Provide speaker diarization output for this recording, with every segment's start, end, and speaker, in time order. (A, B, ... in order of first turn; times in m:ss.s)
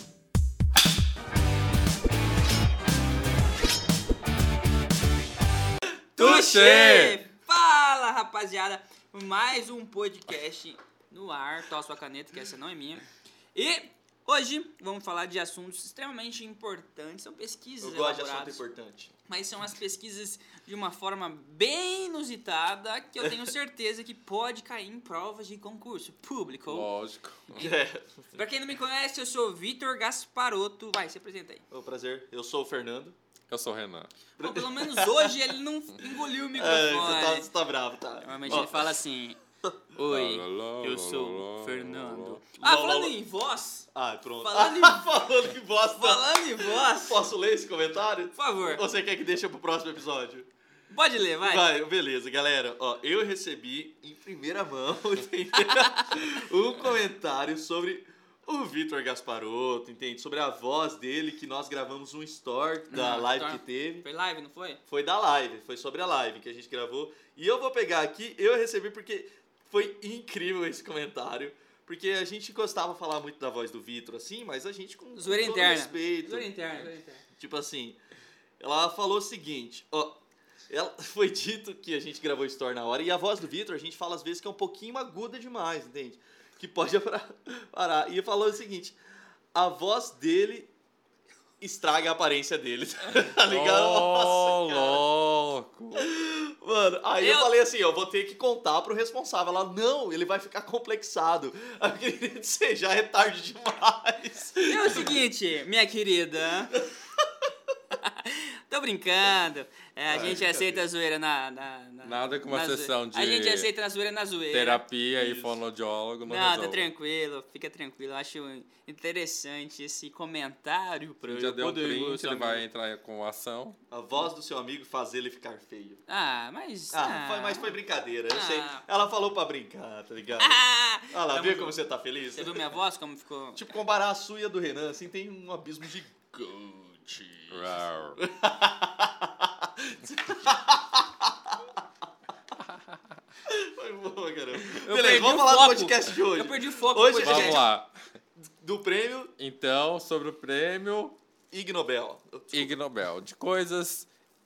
0:06.2-0:18.6 A
0:06.2-0:07.2 B
0:17.8-0:19.1 C
0:19.3-0:26.9 A
0:26.7-0:27.7 B
0:27.5-0:28.4 C
0:28.3-0:31.6 A
0:31.7-0:33.2 C
0:33.5-0:34.1 B
0:34.4-0:37.5 A
0:34.4-0:35.3 C
0:36.6-0:39.0 C
0:38.2-0:39.4 A
0:39.9-0:43.9 A
0:40.1-0:42.4 B
0:42.5-0:43.2 C
0:43.9-0:50.5 C
0:44.4-0:45.2 A
0:45.9-0:47.3 A
0:48.3-0:48.8 A
0:50.9-0:51.7 A
0:51.4-1:04.0 C
0:55.6-0:56.2 A
1:02.9-1:04.8 A
1:04.9-1:18.0 C
1:15.1-1:17.2 A
1:18.6-1:29.0 C
1:29.5-1:30.7 C
1:31.6-1:35.0 C
1:33.5-1:36.1 B
1:36.0-1:45.2 C
1:37.2-1:37.5 A
1:44.6-1:46.8 A
1:46.8-1:47.2 C
1:47.9-1:54.8 A
1:50.1-1:50.9 C
1:52.0-1:53.7 B
1:54.5-1:56.9 B
1:55.1-1:55.6 C
1:56.2-2:01.4 A
2:01.3-2:02.6 C
2:01.3-2:03.8 B
2:03.9-2:06.0 C
2:06.1-2:07.8 A
2:06.9-2:12.6 C
2:08.3-2:08.8 A
2:10.4-2:11.8 A
2:12.3-2:13.6 A
2:13.6-2:21.7 C
2:17.5-2:18.2 B
2:23.5-2:27.7 C
2:24.7-2:27.6 A
2:27.2-2:27.9 B
2:28.4-2:29.3 C
2:29.4-2:31.2 B
2:31.5-2:32.7 C
2:32.5-2:34.1 B